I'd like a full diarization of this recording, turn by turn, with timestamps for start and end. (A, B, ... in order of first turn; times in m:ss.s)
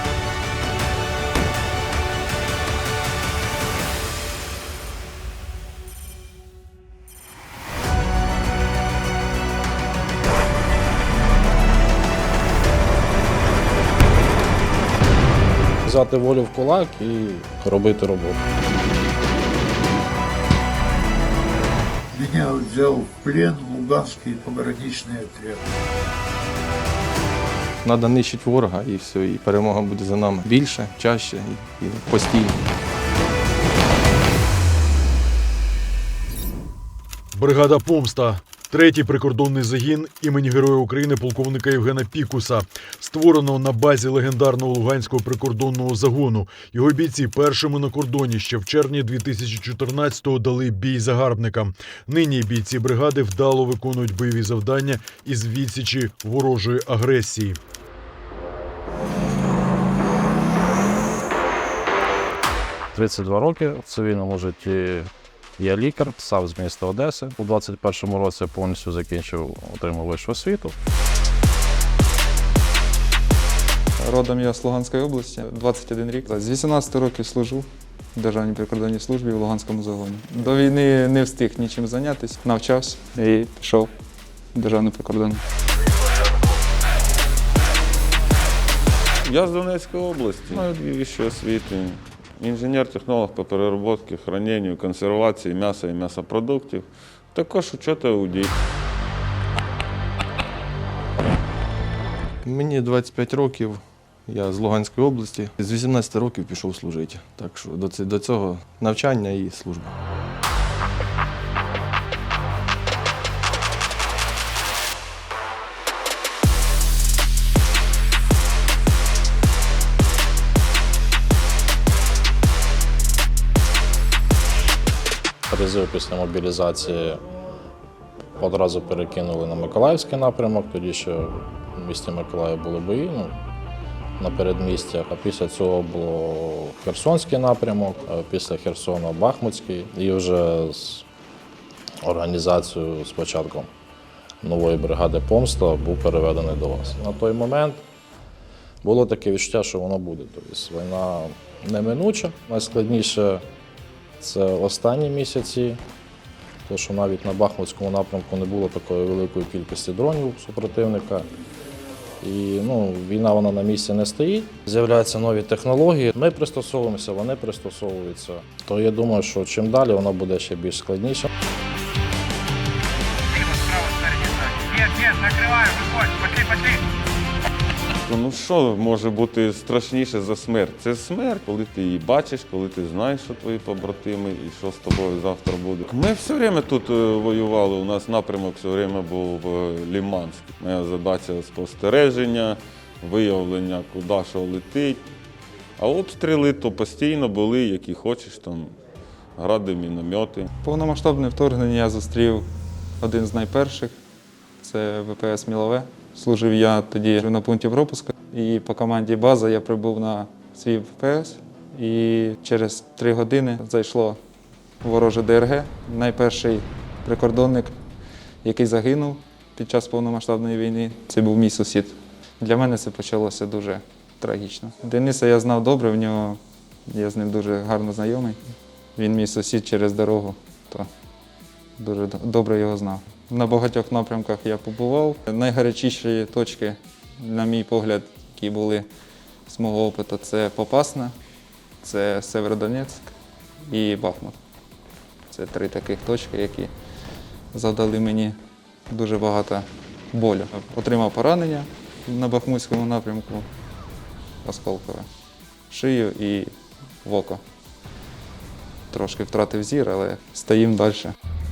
0:15.8-0:18.4 A
0:22.1-0:25.6 B
0:27.8-0:32.6 C
0:37.3-0:57.6 D
1:02.9-1:10.8 A
1:14.0-1:23.9 E
1:24.5-1:25.4 E
1:29.2-1:38.5 F
1:42.4-1:50.0 C
2:05.5-2:07.2 A
2:08.4-2:13.4 A
2:14.2-2:21.0 A
2:22.0-2:23.7 A
2:24.4-2:27.8 A
2:28.8-2:33.4 A
2:34.2-2:35.8 A
2:36.7-2:41.3 A
2:42.2-2:51.3 A
2:58.0-3:15.0 F
3:15.8-3:18.7 F
3:19.4-3:20.5 F
3:20.6-3:22.5 E
3:23.0-3:24.0 E
3:24.6-3:34.2 E
3:34.8-3:37.8 E
3:38.4-3:48.4 E
3:49.0-3:50.9 E
3:51.8-3:58.9 E
3:59.5-4:01.1 E
4:01.8-4:03.1 E
4:03.7-4:04.4 E
4:05.3-4:06.7 E
4:07.5-4:08.4 E
4:08.9-4:13.5 E
4:14.4-4:15.1 E
4:15.7-4:17.4 E
4:18.9-4:21.1 E